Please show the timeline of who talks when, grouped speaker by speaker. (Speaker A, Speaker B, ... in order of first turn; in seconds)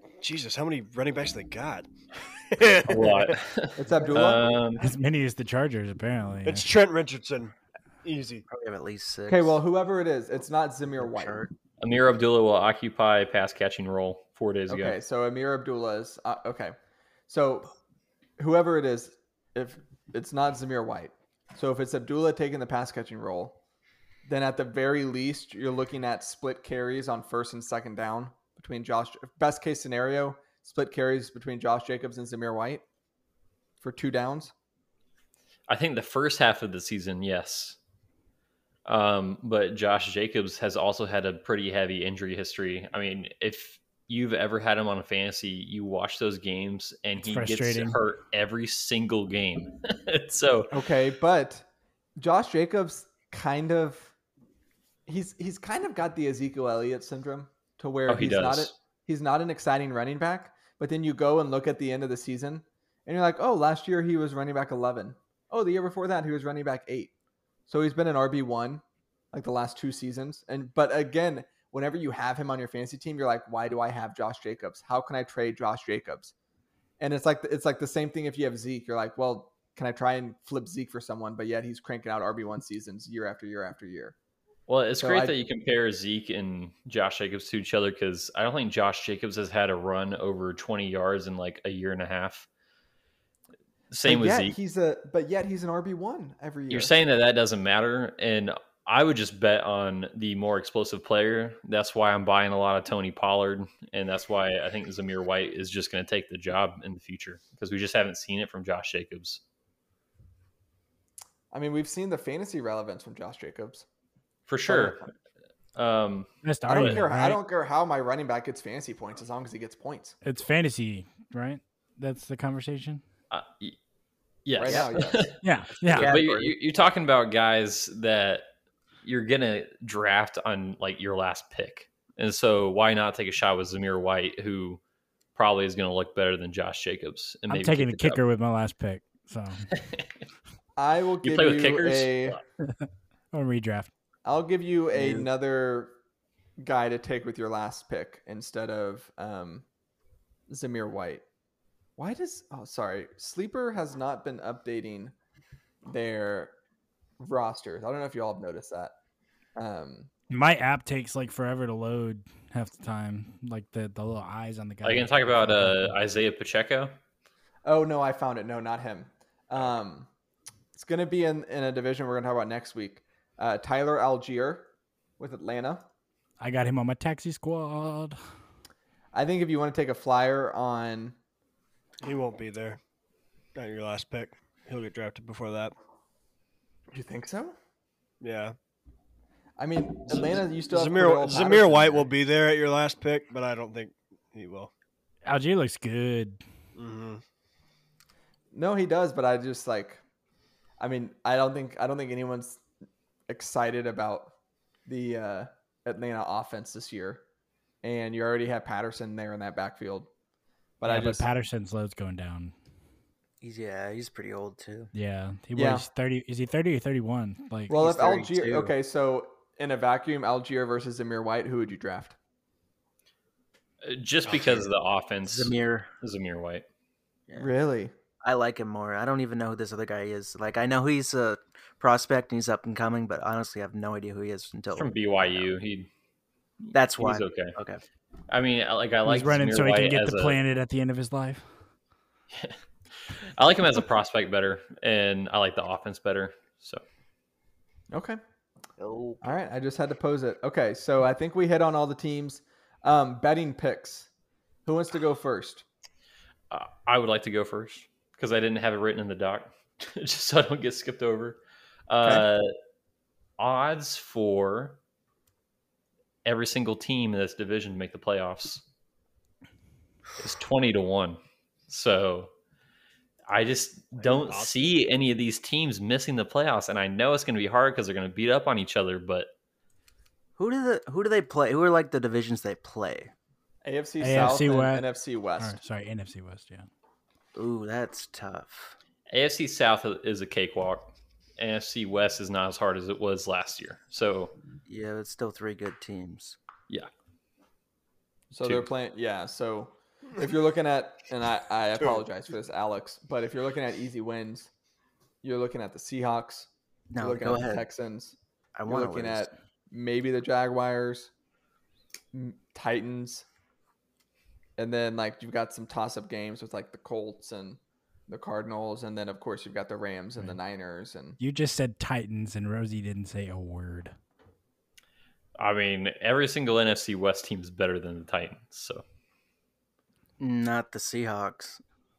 Speaker A: 0.2-3.4, 6.4-8.4, 182.0-182.8, 183.6-185.7, 188.2-188.5, 190.1-194.7, 196.7-197.2, 274.0-274.6
Speaker B: 2.7-4.9, 11.8-14.9, 35.7-37.8, 38.9-50.9, 58.1-58.7, 84.7-92.5, 93.9-94.5, 96.7-109.4, 114.5-115.0, 115.7-117.0, 123.3-123.8, 124.5-128.4, 129.0-134.8, 135.3-138.2, 139.7-140.1, 141.2-142.4, 164.8-166.9, 223.8-226.7, 234.7-235.9, 236.6-237.5, 238.3-240.4, 243.1-246.8, 256.5-262.5, 263.4-264.8, 266.2-268.6, 270.2-272.3, 273.3-279.3, 289.1-294.3, 298.4-298.7, 325.4-328.8
Speaker C: 3.8-4.6, 9.3-11.4, 14.7-16.8, 17.3-17.7, 18.4-23.6, 24.2-32.8, 33.8-34.5, 50.7-51.6, 52.2-54.1, 55.1-67.1, 67.7-76.3, 77.0-84.1, 85.0-85.3, 94.0-96.9, 111.5-113.8, 114.7-115.1, 116.7-120.2, 124.6-125.3, 140.8-142.4, 144.2-145.9, 146.6-149.6, 150.5-151.2, 152.0-155.1, 155.8-156.5, 157.2-158.9, 159.6-160.1, 167.6-170.1, 170.7-175.8, 179.1-181.1, 186.9-187.6, 189.6-192.1, 198.5-200.0, 200.8-202.6, 203.3-204.3, 204.8-207.2, 207.8-210.1, 210.8-211.2, 215.6-215.8, 217.7-222.2, 227.4-227.9, 247.9-248.2, 249.2-254.1, 254.7-255.6, 283.6-285.6, 298.3-304.5, 305.2-308.2, 308.7-311.1, 312.1-313.2, 314.6-321.2
Speaker D: 4.8-6.7, 47.2-48.0, 116.4-117.4, 120.2-123.0, 125.4-126.1, 137.5-139.7, 142.7-143.9, 160.3-165.9, 176.4-178.2, 195.2-196.4, 210.8-212.5, 214.9-217.7, 239.0-241.4, 284.0-284.9, 285.4-286.7, 321.2-323.9
Speaker E: 8.5-9.6, 11.0-11.5, 124.6-124.9, 125.9-126.5, 144.9-145.3, 213.4-214.9, 217.7-218.7, 225.2-225.9, 227.3-227.5, 228.2-235.5, 236.7-237.8, 248.8-249.4, 280.4-283.1, 287.3-288.7, 294.6-296.4, 306.9-307.6, 308.6-309.3, 330.2-331.6